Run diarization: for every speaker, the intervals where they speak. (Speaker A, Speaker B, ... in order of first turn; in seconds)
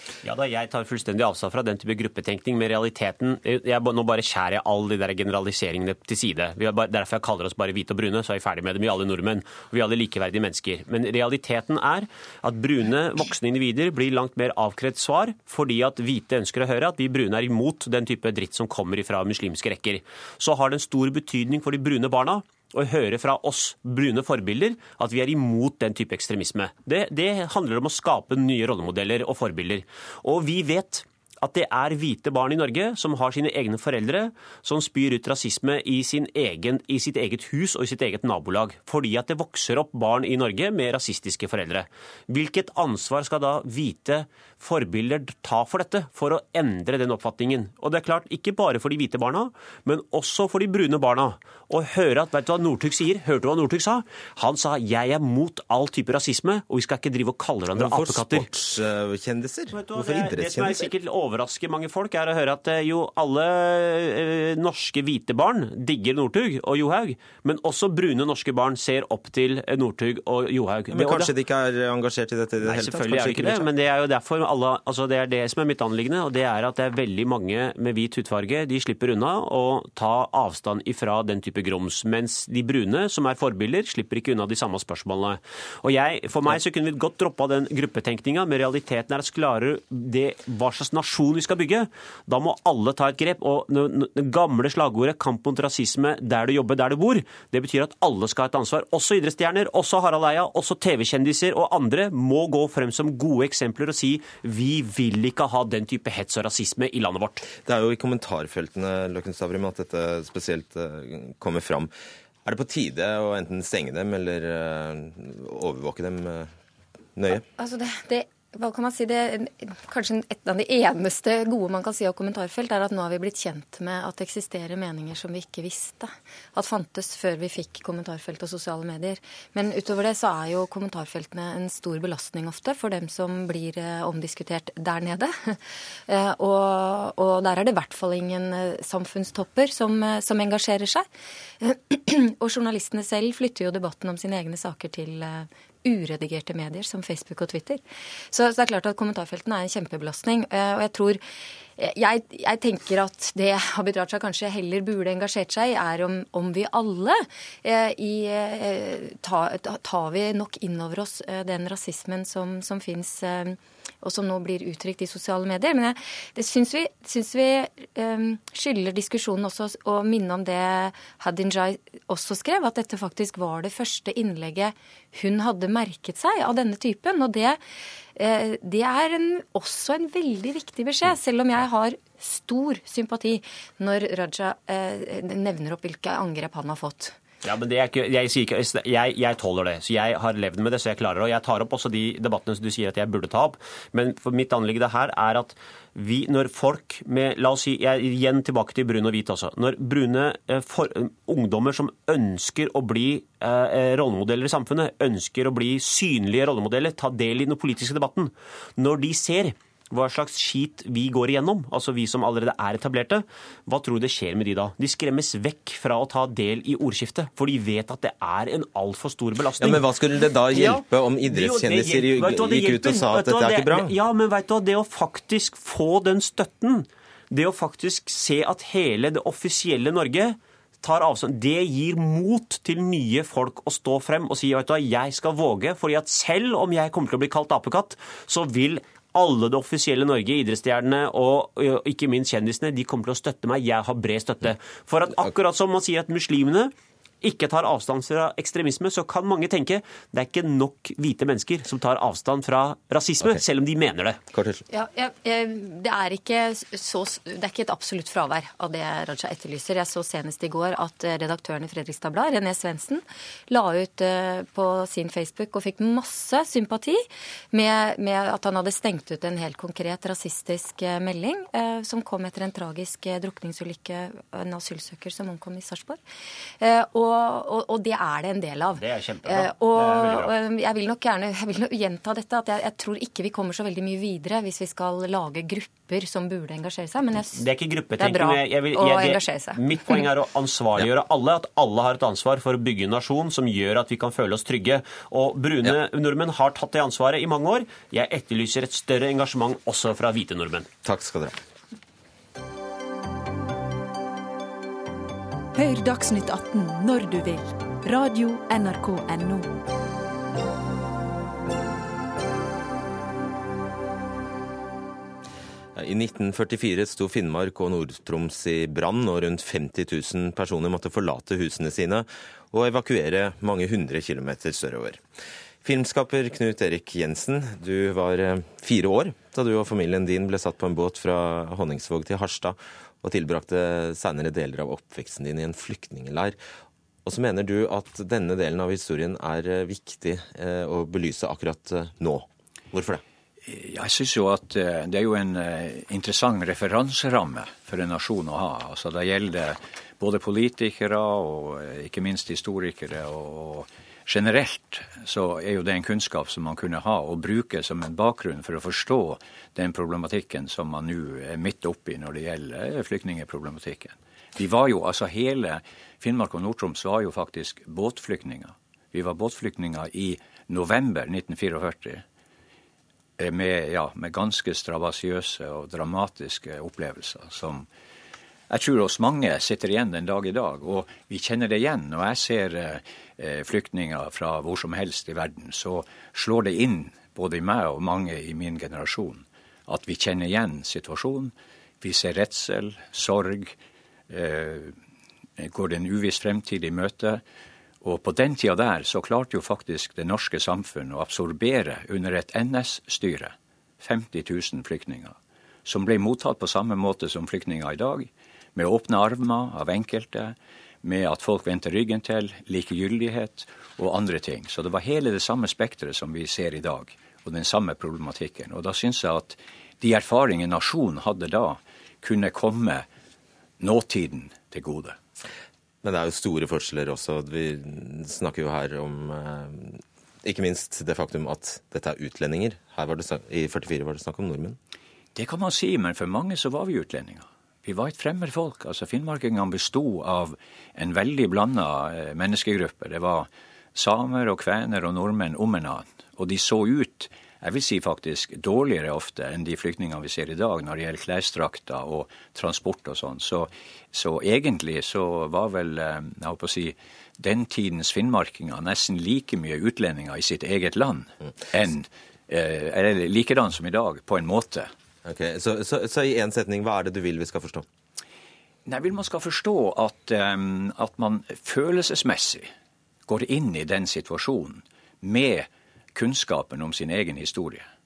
Speaker A: 0.2-58.5, 59.7-71.3, 72.6-107.5, 187.4-254.2, 278.8-280.3, 287.4-300.7
Speaker B: 57.8-60.9, 70.9-73.7, 107.6-111.9, 112.4-116.5, 117.2-117.5, 219.6-223.9, 254.3-254.6, 300.8-301.4, 315.8-325.0, 325.6-336.4, 337.0-343.0, 425.8-434.6, 465.0-467.6
Speaker C: 117.5-141.1, 141.6-151.2, 151.8-177.6, 178.2-187.2, 254.7-276.0, 276.6-287.4, 288.0-290.0
Speaker D: 305.5-309.5
Speaker E: 343.4-372.0, 373.2-377.7, 378.5-393.5, 394.1-394.7, 395.4-397.2, 397.8-422.9, 423.6-424.9, 435.1-464.7, 468.6-472.5, 473.1-477.6